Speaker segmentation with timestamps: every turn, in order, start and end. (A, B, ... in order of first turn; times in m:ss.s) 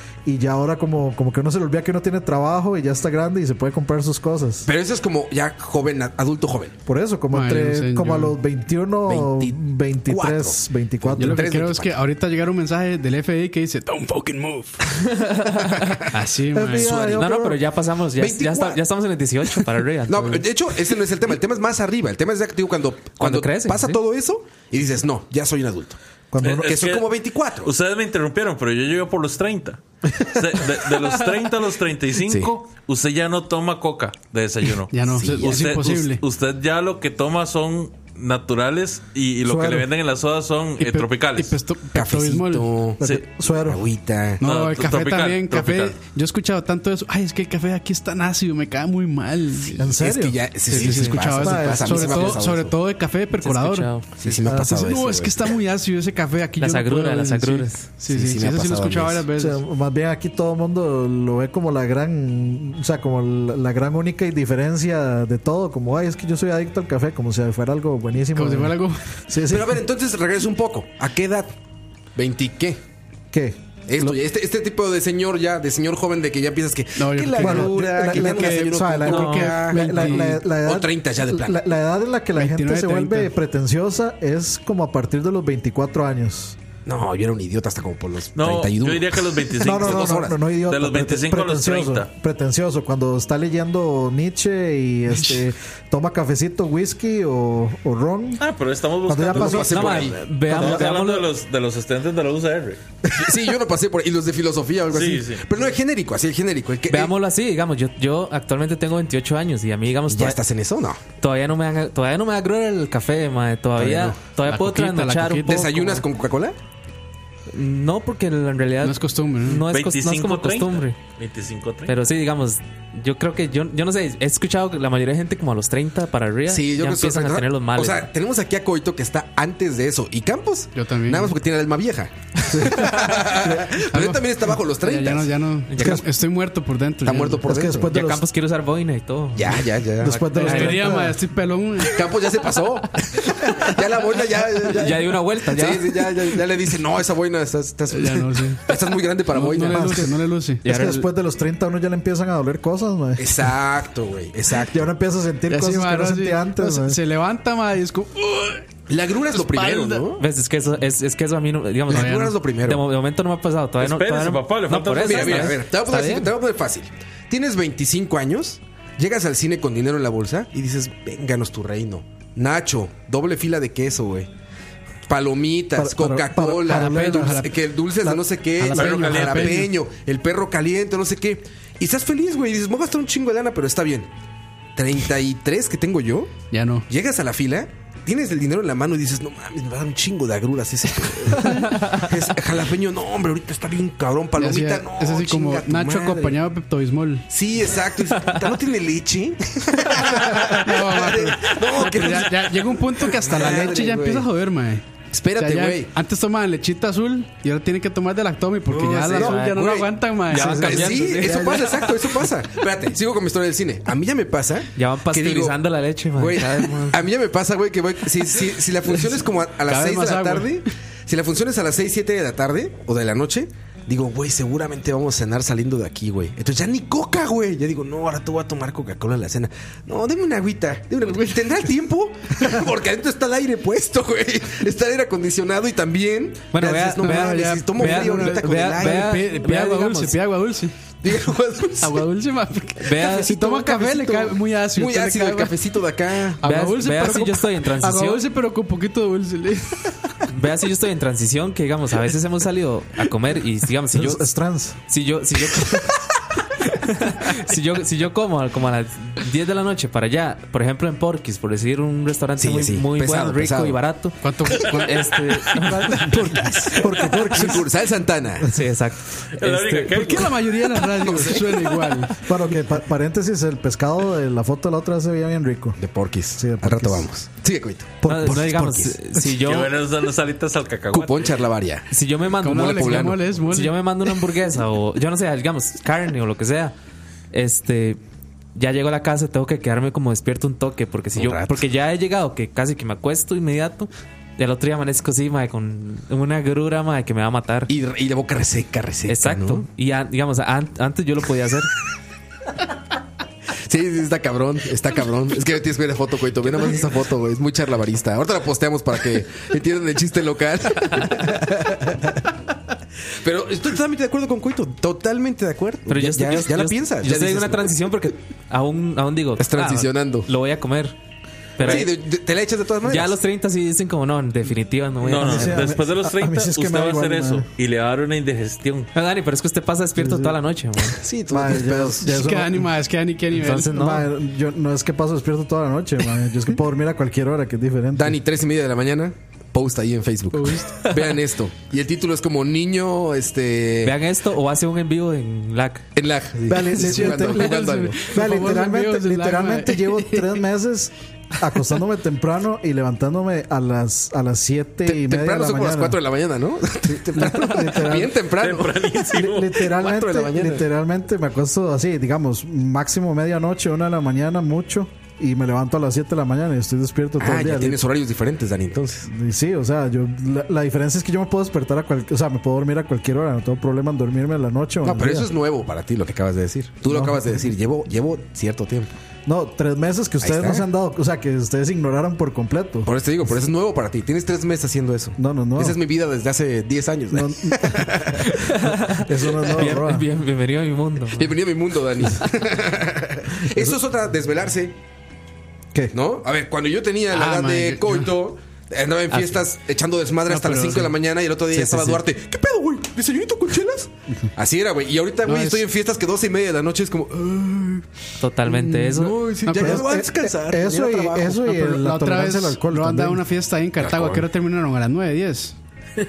0:00.2-0:04.7 A
0:04.6-0:06.7 B
0:06.9-0:11.5 A
0:07.3-0:08.4 C
0:09.0-0:12.0 B
0:11.2-0:15.0 C
0:15.1-0:16.3 D
0:16.1-0:17.0 C
0:16.5-0:17.6 A
0:16.8-0:17.3 B
0:16.9-0:20.5 D
0:18.2-0:18.8 B
0:20.1-0:27.7 B
0:23.2-0:24.0 D
0:26.3-0:26.8 A
0:26.4-0:41.6 E
0:34.9-0:36.2 C
0:35.1-0:35.8 B
0:39.4-0:39.9 A
0:40.8-0:42.7 C
0:41.9-0:43.0 B
0:43.0-0:43.8 A
0:43.6-0:44.4 B
0:44.4-0:49.9 C
0:44.4-0:46.0 E
0:49.8-0:50.4 A
0:49.8-0:52.7 B
0:50.7-0:59.6 C
0:50.7-0:51.2 D
0:51.3-0:52.4 A
0:53.4-0:54.0 D
0:54.2-0:55.5 B
0:54.4-0:54.8 A
0:56.6-0:57.8 D
0:58.1-0:59.2 B
0:59.3-1:09.8 A
1:08.3-1:09.0 C
1:09.5-1:11.5 B
1:12.2-1:12.8 B
1:13.3-1:14.1 A
1:13.9-1:21.6 B
1:17.0-1:20.5 C
1:17.4-1:26.6 A
1:19.1-1:19.4 D
1:22.3-1:23.3 C
1:26.8-1:30.4 B
1:28.3-1:32.1 E
1:29.6-1:38.4 A
1:38.4-1:42.8 E
1:39.0-1:41.1 A
1:39.3-1:40.2 B
1:39.6-1:41.3 D
1:43.0-1:47.1 B
1:44.9-1:45.4 E
1:46.9-1:50.4 D
1:50.1-1:51.0 B
1:51.2-1:56.0 D
1:53.8-1:54.2 B
1:54.4-1:55.7 C
1:55.4-1:56.6 B
1:57.5-2:01.0 D
1:58.8-1:59.6 C
1:59.7-2:01.9 E
2:01.8-2:08.1 D
2:06.5-2:15.3 B
2:10.7-2:11.4 C
2:13.8-2:17.4 C
2:15.7-2:16.0 D
2:15.8-2:16.0 A
2:17.0-2:17.9 B
2:17.4-2:18.2 A
2:17.9-2:21.0 D
2:19.3-2:20.2 B
2:20.0-2:21.2 A
2:20.3-2:22.0 C
2:21.8-2:30.1 B
2:24.7-2:26.0 D
2:27.9-2:30.6 C
2:29.6-2:33.5 A
2:30.6-2:31.1 D
2:33.2-2:34.9 B
2:34.6-2:37.0 A
2:35.5-2:38.6 C
2:38.9-2:40.2 B
2:39.3-2:40.1 C
2:40.2-2:46.3 D
2:41.9-2:42.8 B
2:41.9-2:42.3 C
2:43.8-2:45.6 E
2:45.0-2:54.3 B
2:55.1-3:04.1 B
2:55.7-2:57.5 A
2:56.6-2:57.5 C
2:58.6-2:59.7 C
2:58.7-2:59.7 E
3:04.8-3:06.4 B
3:06.5-3:06.9 C
3:06.9-3:16.4 B
3:14.4-3:17.3 C
3:17.3-3:24.3 B
3:20.6-3:24.8 C
3:25.1-3:25.9 B
3:25.4-3:31.0 C
3:28.8-3:29.7 D
3:28.8-3:35.6 B
3:30.3-3:32.1 D
3:30.3-3:30.9 A
3:34.8-3:37.0 D
3:36.2-3:59.2 B
3:39.6-3:40.6 C
3:56.5-4:00.2 D
3:57.0-4:00.7 C
4:01.0-4:02.0 B
4:01.8-4:05.6 C
4:02.8-4:03.4 D
4:03.0-4:06.4 B
4:06.4-4:09.9 C
4:06.4-4:08.2 D
4:10.3-4:14.3 D
4:13.9-4:14.8 A
4:14.9-4:16.0 D
4:16.6-4:26.1 D
4:22.4-4:23.8 B
4:24.2-4:25.9 C
4:25.9-4:27.7 A
4:26.1-4:28.5 B
4:28.4-4:30.0 D
4:29.4-4:30.4 E
4:29.9-4:32.2 C
4:30.9-4:32.0 B
4:32.2-4:35.8 A
4:35.8-4:39.0 B
4:36.3-4:37.1 A
4:38.0-4:38.6 A
4:38.0-4:39.7 D
4:39.4-4:41.4 E
4:40.9-4:41.9 B
4:41.9-4:46.7 D
4:42.4-4:43.8 C
4:42.5-4:43.3 B
4:47.3-4:48.0 D
4:48.5-4:57.7 D
4:51.1-4:51.6 B
4:57.7-4:59.6 B
4:59.1-5:01.7 D
5:03.6-5:12.2 B
5:13.2-5:17.8 B
5:15.9-5:21.0 D
5:19.4-5:20.3 B
5:21.6-5:21.9 D
5:21.6-5:23.2 B
5:22.8-5:25.7 D
5:25.0-5:28.9 E
5:25.1-5:27.5 A
5:28.9-5:31.0 D
5:30.0-5:30.4 A
5:31.0-5:32.1 B
5:31.3-5:32.7 A
5:32.0-5:33.9 C
5:33.3-5:34.1 D
5:33.6-5:38.2 A
5:38.0-5:44.0 B
5:40.3-5:40.8 C
5:43.8-5:45.8 D
5:45.9-5:48.1 B
5:46.5-5:56.0 A
5:46.7-5:50.4 C
5:54.8-5:59.0 B
5:56.9-5:58.2 A
5:58.3-5:59.7 E
5:59.0-6:07.8 A
5:59.6-6:00.6 B
6:07.2-6:09.1 B
6:09.1-6:15.3 A
6:14.8-6:18.9 B
6:16.9-6:17.4 A
6:19.2-6:22.9 A
6:20.2-6:20.6 B
6:22.8-6:28.5 B
6:25.2-6:25.8 A
6:27.1-6:30.1 A
6:28.3-6:31.4 D
6:31.1-6:34.7 B
6:35.9-6:47.8 B
6:37.1-6:38.1 C
6:39.1-6:39.4 D
6:40.3-6:41.0 C
6:41.5-6:42.0 A
6:45.2-6:45.6 C
6:48.2-6:49.2 D
6:48.4-6:51.4 B
6:49.4-6:49.9 C
6:49.6-6:53.2 A
6:51.4-6:55.6 C
6:53.8-6:54.3 B